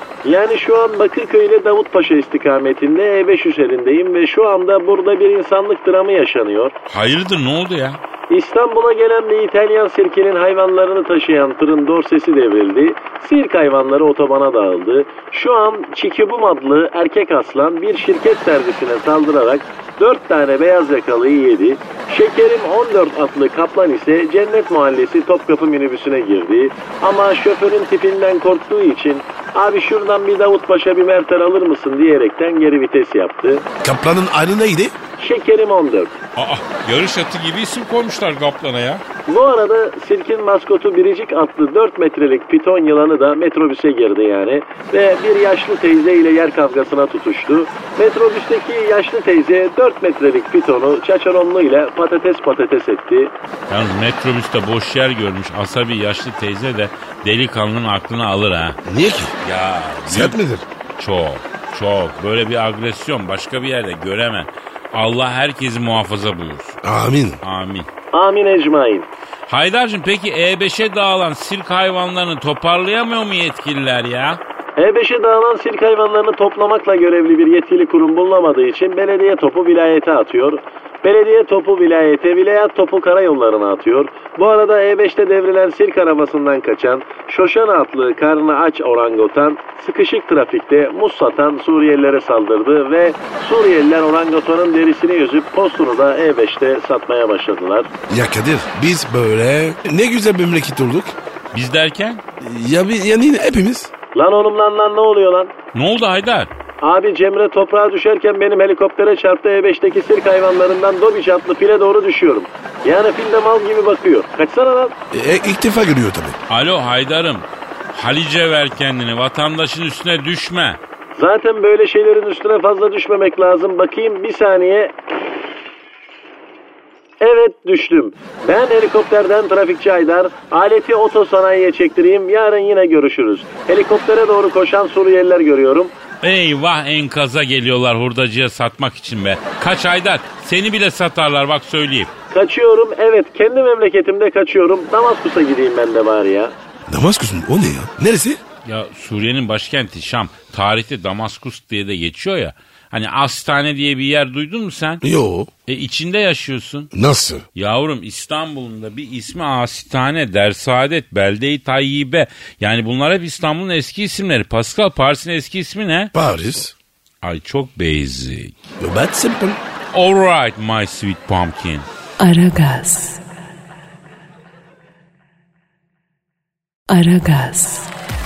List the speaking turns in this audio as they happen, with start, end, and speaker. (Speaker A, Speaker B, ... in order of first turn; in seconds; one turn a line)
Speaker A: 0.2-6.8
Speaker B: 6.9-8.0
Speaker A: 8.3-33.7
Speaker C: 33.8-35.0
Speaker A: 35.2-36.2
Speaker B: 36.4-39.0
Speaker A: 39.3-53.3
Speaker B: 53.7-58.8
Speaker C: 58.9-59.4
Speaker B: 59.4-60.4
Speaker C: 60.1-60.6
Speaker B: 61.0-66.8
Speaker C: 66.8-67.4
Speaker B: 67.4-67.9
Speaker A: 68.1-69.1
Speaker B: 69.5-74.4
Speaker A: 74.8-97.9
Speaker C: 98.1-101.2
Speaker B: 101.5-102.2
Speaker C: 102.4-103.9
Speaker A: 104.2-105.5
Speaker B: 105.7-106.5
Speaker A: 106.8-115.0
Speaker C: 115.1-116.4
Speaker B: 116.5-120.8
Speaker A: 121.2-124.9
Speaker A: 127.2-135.9
Speaker B: 136.2-142.1
Speaker A: 142.3-146.6
Speaker C: 146.9-148.4
Speaker B: 148.7-155.0
Speaker C: 155.0-155.5
Speaker B: 155.7-156.9
Speaker C: 156.9-157.5
Speaker B: 157.6-166.1
Speaker C: 166.1-166.8
Speaker B: 167.2-168.6
Speaker C: 168.8-169.6
Speaker B: 169.9-171.9
Speaker D: 172.2-173.2
Speaker D: 176.9-177.9